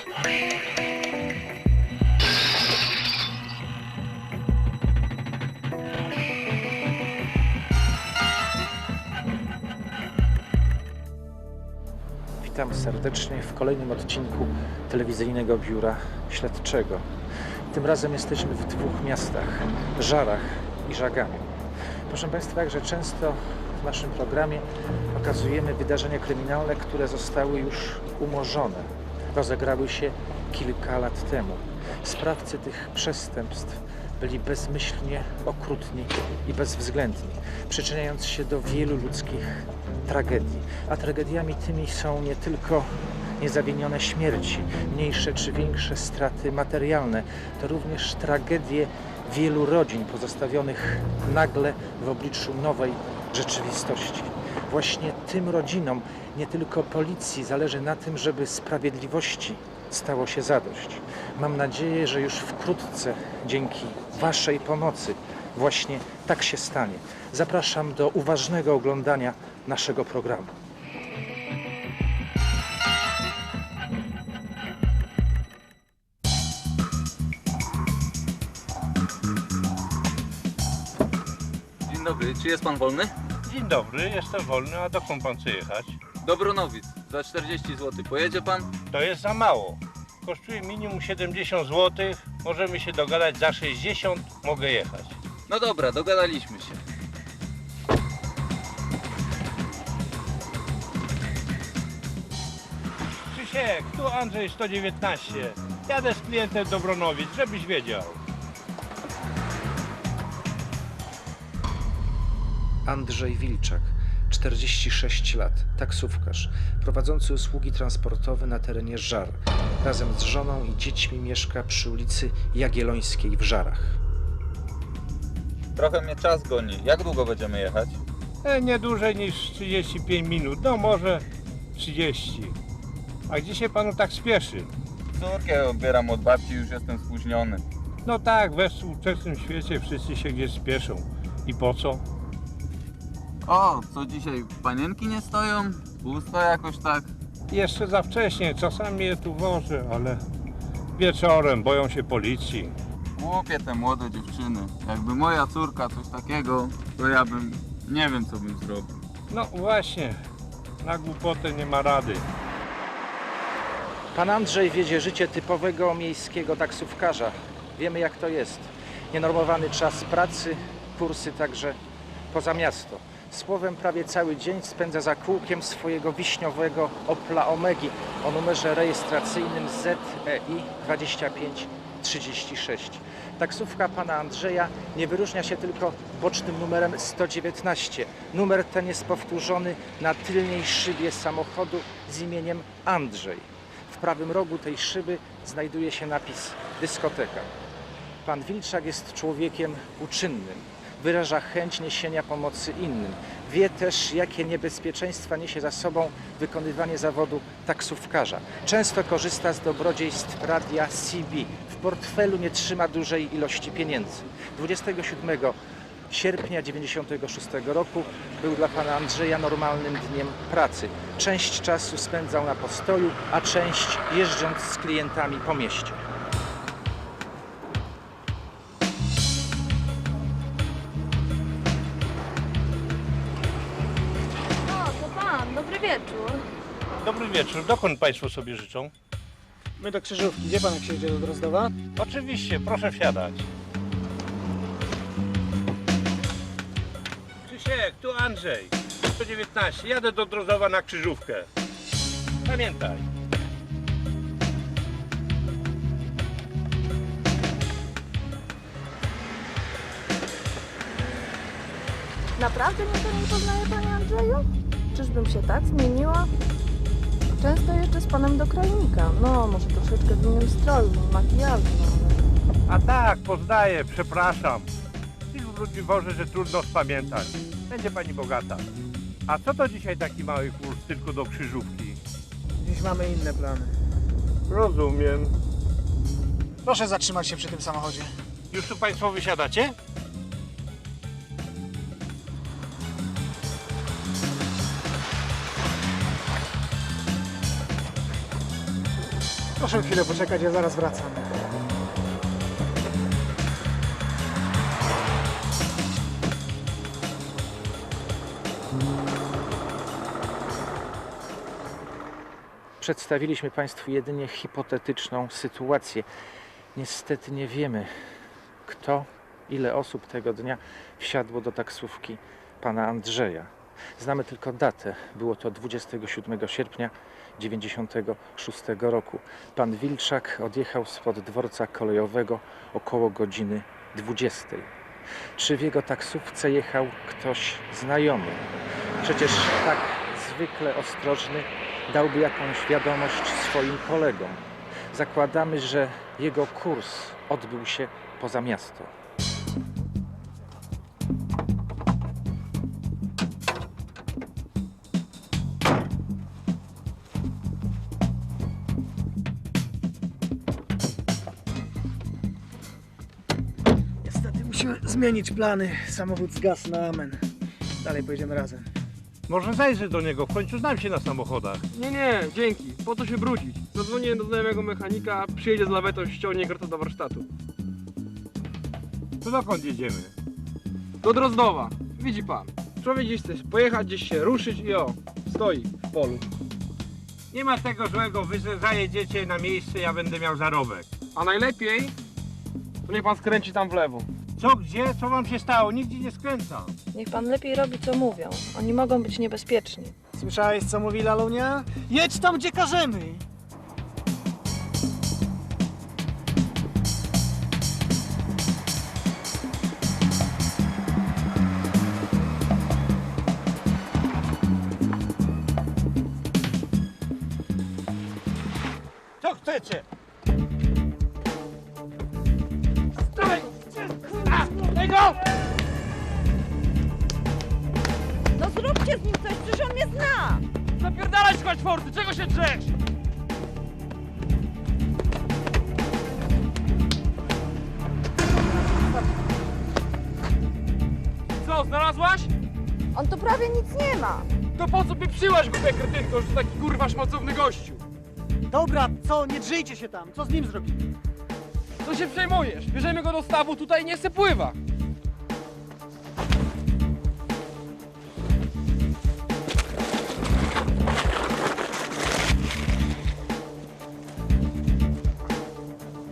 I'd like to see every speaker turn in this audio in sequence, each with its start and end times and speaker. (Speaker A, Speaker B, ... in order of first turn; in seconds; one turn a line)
Speaker A: 12.4-17.1
Speaker A: 17.7-21.5
Speaker A: 22.1-70.5
Speaker B: 81.9-83.1
Speaker C: 83.5-86.0
Speaker B: 86.2-88.7
Speaker C: 88.9-95.2
Speaker B: 95.5-96.8
Speaker C: 103.3-108.2
Speaker A: 112.9-124.0
Speaker B: 125.8-128.0
Speaker C: 128.4-131.2
Speaker C: 131.8-132.6
Speaker C: 133.3-134.7
Speaker B: 135.2-137.6
Speaker C: 138.1-142.0
Speaker B: 143.4-147.1
Speaker C: 147.5-150.2
Speaker C: 151.0-152.8
Speaker B: 153.2-159.0
Speaker C: 159.3-160.2
Speaker C: 160.8-162.3
Speaker A: 164.1-171.8
Speaker A: 172.3-197.5
Speaker A: 198.2-215.6
Speaker A: 216.1-226.0
Speaker D: 234.6-236.4
Speaker C: 237.0-238.9
Speaker E: 239.8-241.7
Speaker C: 242.0-243.5
Speaker C: 247.4-251.5
Speaker C: 252.4-253.1
Speaker D: 262.4-266.3
Speaker D: 267.4-272.2
Speaker C: 272.7-274.7
Speaker C: 275.3-278.6
Speaker C: 279.3-282.0
Speaker E: 282.6-283.7
Speaker C: 284.5-285.3
Speaker E: 286.6-288.1
Speaker C: 288.5-289.8
Speaker E: 299.6-301.3
Speaker A: 312.8-316.1
Speaker A: 316.8-317.9
Speaker A: 318.7-334.7
Speaker A: 335.4-338.5
Speaker A: 339.0-344.4
Speaker A: 344.9-348.9
Speaker E: 364.0-367.2
Speaker E: 367.8-368.7
Speaker C: 369.3-371.6
Speaker F: 371.7-377.3
Speaker C: 379.2-380.1
Speaker F: 381.0-386.2
Speaker C: 387.3-390.9
Speaker F: 391.1-391.9
Speaker F: 392.9-394.1
Speaker C: 394.4-396.8
Speaker D: 396.9-399.9
Speaker E: 400.1-403.2
Speaker C: 419.2-419.9
Speaker C: 424.4-425.1
Speaker D: 428.4-430.4
Speaker F: 430.8-432.7
Speaker F: 441.4-442.3
Speaker D: 442.9-444.3
Speaker F: 444.6-447.8
Speaker E: 448.5-450.9
Speaker F: 451.8-454.6